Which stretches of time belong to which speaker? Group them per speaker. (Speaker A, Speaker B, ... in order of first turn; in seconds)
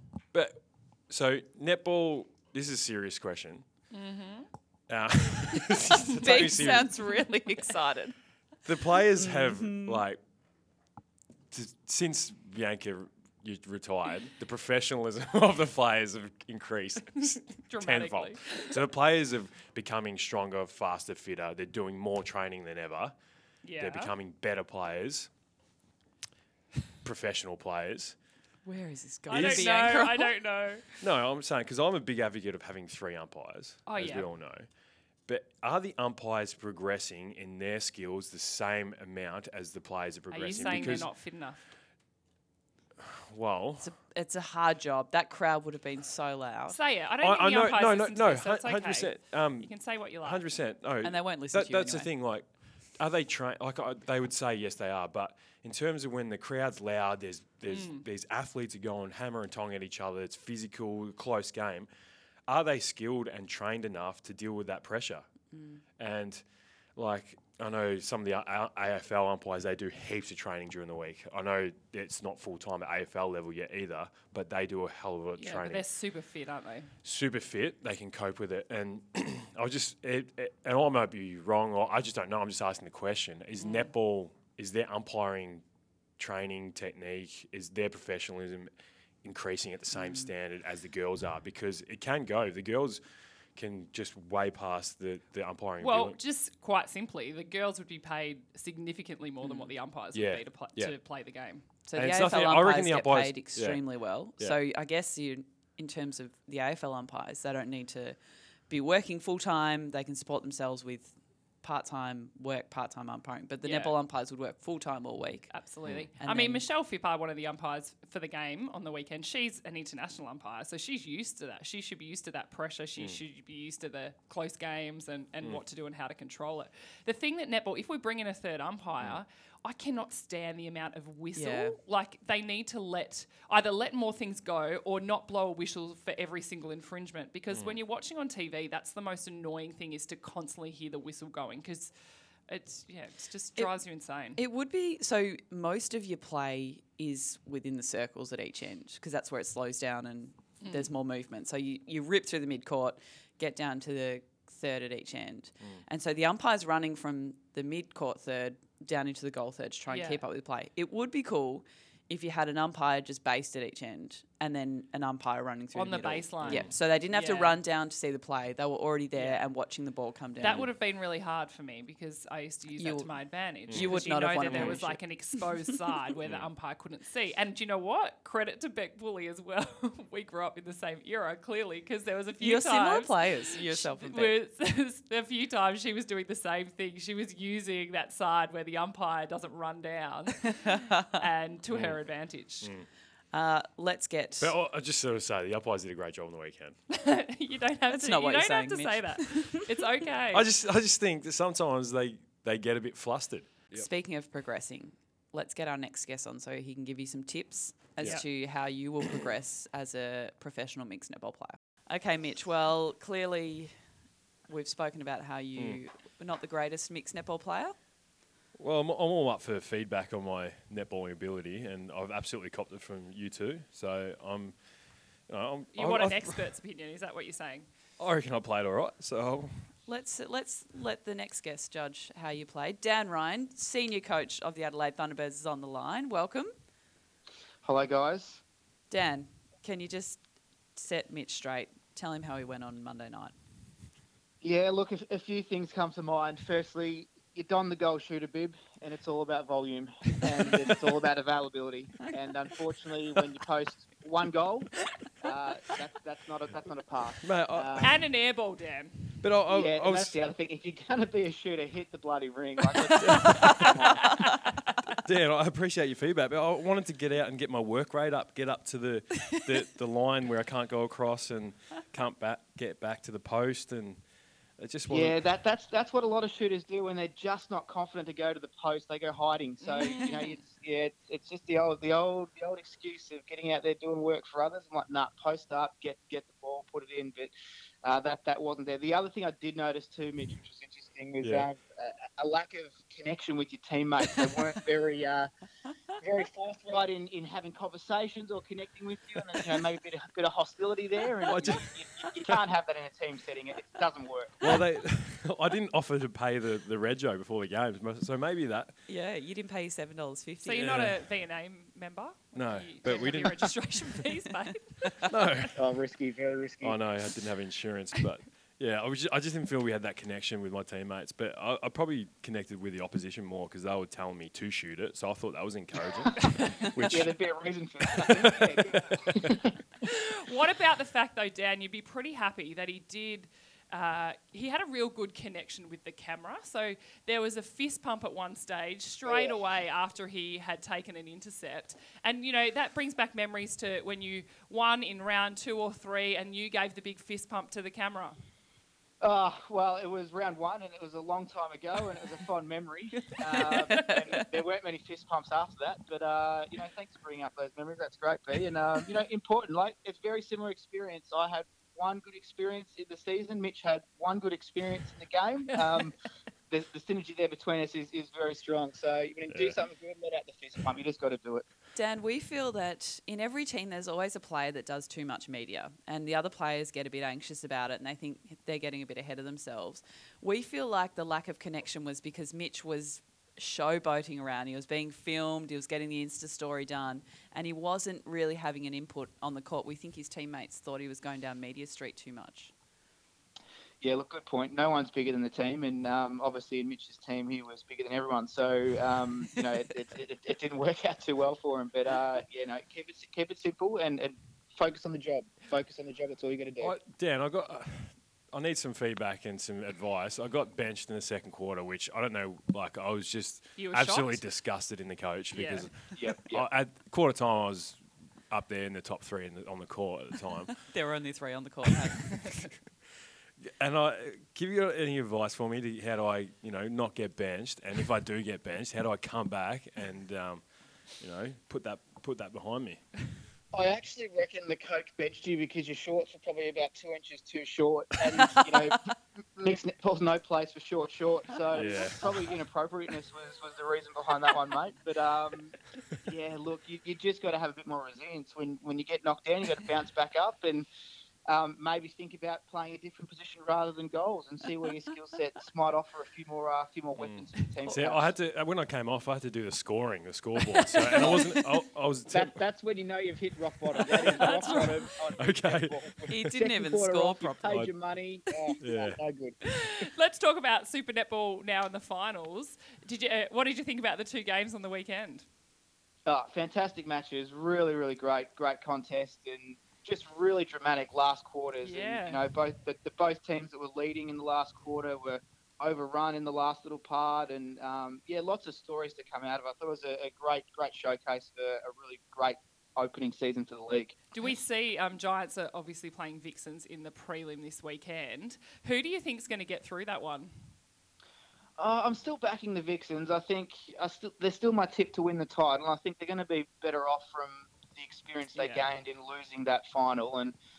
Speaker A: 0.3-3.6, 4.9-6.9, 8.6-10.2, 11.5-23.1, 23.8-25.3, 27.0-28.1, 29.3-30.0, 31.0-34.7, 35.3-41.1, 43.0-43.9, 47.2-52.5, 53.0-61.9, 62.5-65.2, 66.0-66.4, 67.0-75.8, 77.0-85.6, 86.2-88.7, 89.2-93.0, 93.5-96.2, 100.1-100.9, 102.0-103.8, 137.5-137.8, 166.4-166.7, 173.7-174.8, 191.7-192.0, 192.6-192.9, 194.4-196.8, 200.3-203.9, 218.5-224.6, 225.3-226.4, 228.0-229.5, 257.2-258.1, 259.2-260.1, 263.0-263.4, 265.0-274.0, 274.6-275.3, 291.2-291.5, 301.2-301.7, 304.4-308.8, 310.6-311.0, 312.3-313.5, 315.1-315.6, 316.6-327.1, 327.8-329.4, 369.3-369.6, 406.6-415.7, 416.2-420.5, 423.4-430.4, 431.0-432.8, 441.5-442.2, 457.0-462.4, 464.2-464.5, 465.1-465.8, 468.6-469.0
Speaker B: 3.9-4.5, 17.2-18.8, 23.6-24.1, 29.3-30.9, 33.9-34.3, 40.3-41.6, 46.7-50.4, 57.7-58.0, 75.4-76.9, 95.8-101.6, 113.6-113.9, 115.5-141.9, 142.5-144.4, 150.6-150.9, 159.9-160.2, 165.7-167.6, 170.4-192.7, 196.9-200.5, 225.7-227.7, 257.8-259.2, 264.2-264.5, 279.6-280.4, 310.4-315.5, 329.8-348.2, 413.6-414.2, 415.3-415.7, 460.7-461.3, 463.9-464.8, 469.4-475.2, 481.6-482.2, 494.1-500.4, 508.4-508.7
Speaker C: 6.0-8.1, 9.2-10.0, 28.6-30.4, 43.8-46.8, 51.0-52.1, 99.4-99.7, 101.9-108.2, 108.7-115.5, 116.2-116.6, 131.3-131.8, 144.3-170.7, 172.8-173.1, 173.7-175.0, 182.4-184.3, 190.5-191.2, 193.3-194.5, 197.9-199.7, 203.7-213.7, 214.5-217.8, 229.9-236.5, 238.9-240.2, 240.8-243.3, 308.9-310.9, 353.4-354.0, 371.7-392.5, 420.6-422.2, 466.1-467.7
Speaker D: 237.6-238.4, 244.4-254.7, 255.2-258.0, 259.5-264.3, 274.9-295.3, 296.0-304.5, 315.5-316.8, 326.8-329.5, 339.0-339.4, 349.0-365.9, 366.5-371.4, 393.8-406.8, 415.9-416.4, 433.5-450.7, 451.3-458.1, 460.9-461.2, 462.1-469.4, 476.1-494.0, 501.6-510.3